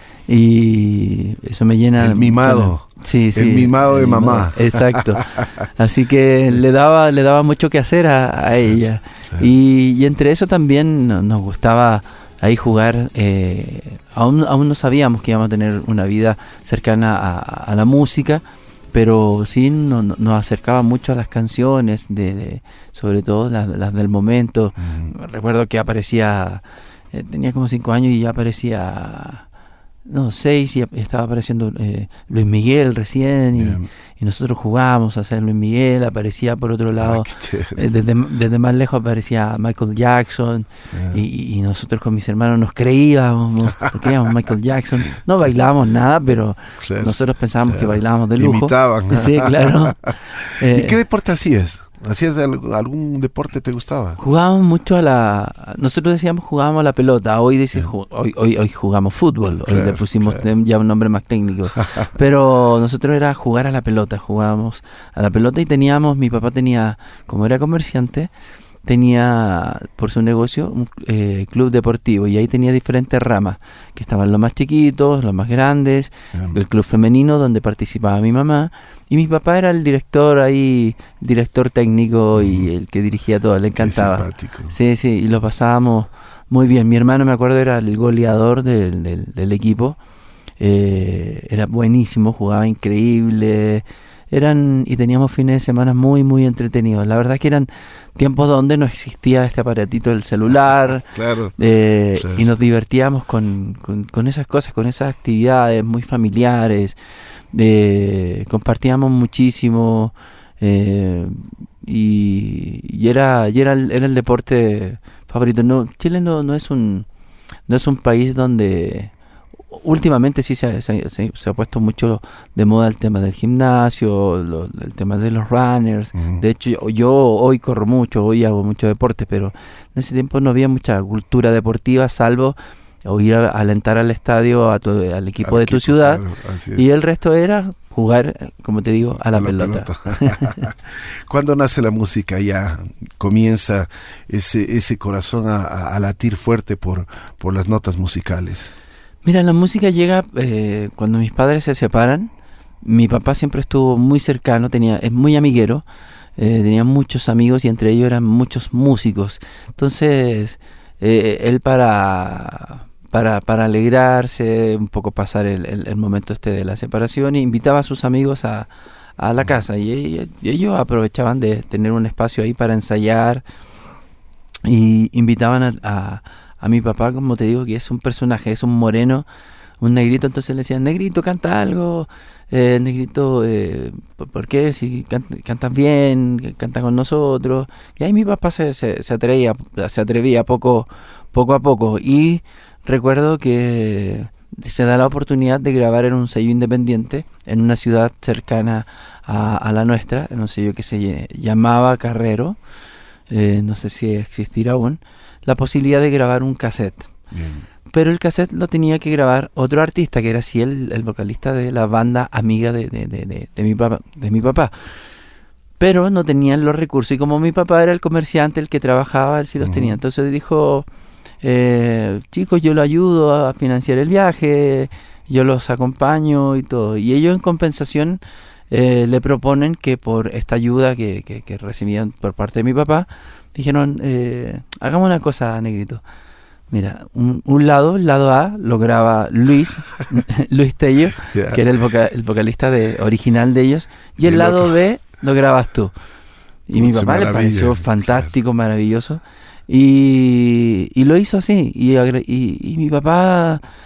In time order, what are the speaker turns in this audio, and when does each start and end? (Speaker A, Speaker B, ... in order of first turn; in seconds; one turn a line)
Speaker A: 0.3-29.4
Speaker B: 2.0-5.6
Speaker B: 24.8-25.1
Speaker A: 30.1-51.0
Speaker B: 33.6-33.9
Speaker B: 37.0-37.8
Speaker B: 40.9-41.2
Speaker B: 46.8-47.1
Speaker B: 47.7-54.2
Speaker A: 54.2-68.3
Speaker B: 59.7-60.4
Speaker A: 68.8-90.0
Speaker B: 76.3-76.6
Speaker B: 82.4-82.7
Speaker B: 83.8-84.8
Speaker A: 90.6-101.1
Speaker B: 101.1-101.5
Speaker A: 101.6-107.0
Speaker B: 102.2-102.5
Speaker A: 107.5-117.1
Speaker A: 117.7-119.1
Speaker A: 119.7-136.2
Speaker B: 126.2-126.4
Speaker B: 135.4-136.9
Speaker A: 136.8-140.6
Speaker B: 139.2-148.7
Speaker A: 149.2-152.3
Speaker A: 152.8-155.9
Speaker A: 156.4-173.4
Speaker A: 174.7-179.3
Speaker A: 179.8-202.6
Speaker A: 203.3-207.1
Speaker B: 207.3-207.7
Speaker A: 207.9-214.9
Speaker A: 215.8-220.9
Speaker B: 219.6-220.0
Speaker A: 221.4-236.0
Speaker A: 236.7-245.9
Speaker B: 241.2-241.6
Speaker B: 244.2-244.7
Speaker A: 246.7-253.6
Speaker B: 246.8-248.3